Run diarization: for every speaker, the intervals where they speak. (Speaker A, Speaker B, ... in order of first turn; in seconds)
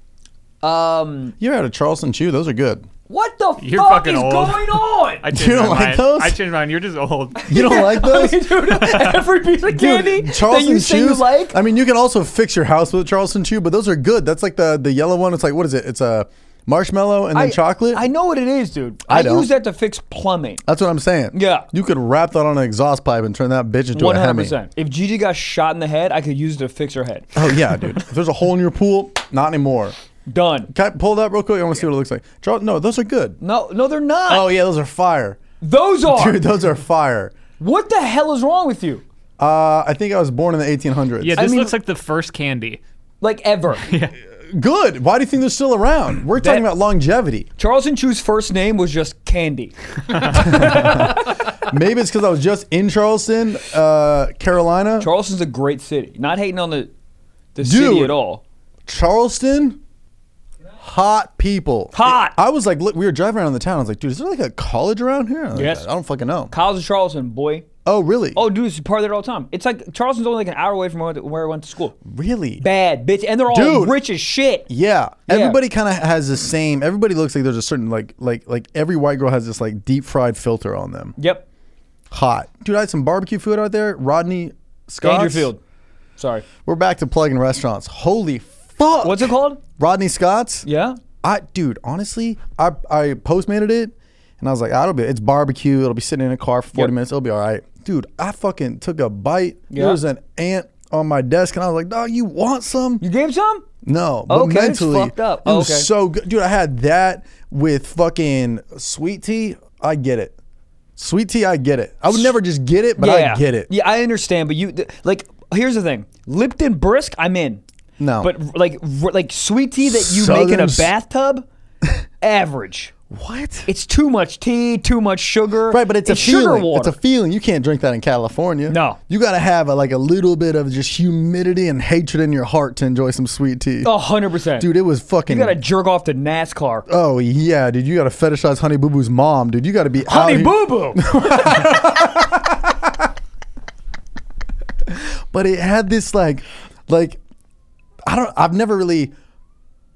Speaker A: 0.6-1.3, 3.1-5.3, 7.3-11.6, 17.3-20.6, 21.3-21.7, 23.9-27.5, 30.3-30.7, 33.4-34.5, 35.6-36.5, 37.6-39.0, 41.4-41.8, 43.2-43.9, 46.3-46.6, 47.6-51.5, 55.0-56.9, 57.5-58.4, 61.9-62.4, 65.5-65.8, 66.5-67.7, 68.3-71.9, 72.6-74.7, 75.3-75.6, 81.2-81.4, 85.0-85.6, 86.2-86.4, 89.0-89.6, 90.6-91.0, 99.7-100.0, 103.0-103.6, 104.3-105.9, 113.0-117.6, 118.2-121.4, 122.2-122.9, 123.7-127.0, 128.7-129.0, 133.8-134.7, 135.3-136.9, 140.1-141.1
Speaker B: 1.4-2.9, 5.3-6.4, 7.5-8.4, 9.7-18.1, 19.1-19.5, 20.6-24.6, 27.3-29.9, 30.7-33.4, 34.3-35.4, 36.0-37.3, 39.4-41.5, 44.5-47.5, 50.3-55.1, 57.6-58.2, 58.9-59.8, 60.8-66.5, 67.8-68.4, 72.0-72.6, 73.5-74.0, 74.7-81.2, 82.1-85.5, 86.6-90.7, 91.2-103.0, 103.8-110.3, 111.0-113.7, 118.0-118.3, 119.8-120.9, 123.1-123.7, 125.7-135.6, 136.9-142.9, 144.9-147.2, 148.1-149.1
Speaker C: 3.6-7.8, 8.6-9.3, 41.2-42.8, 43.8-44.1, 50.1-51.1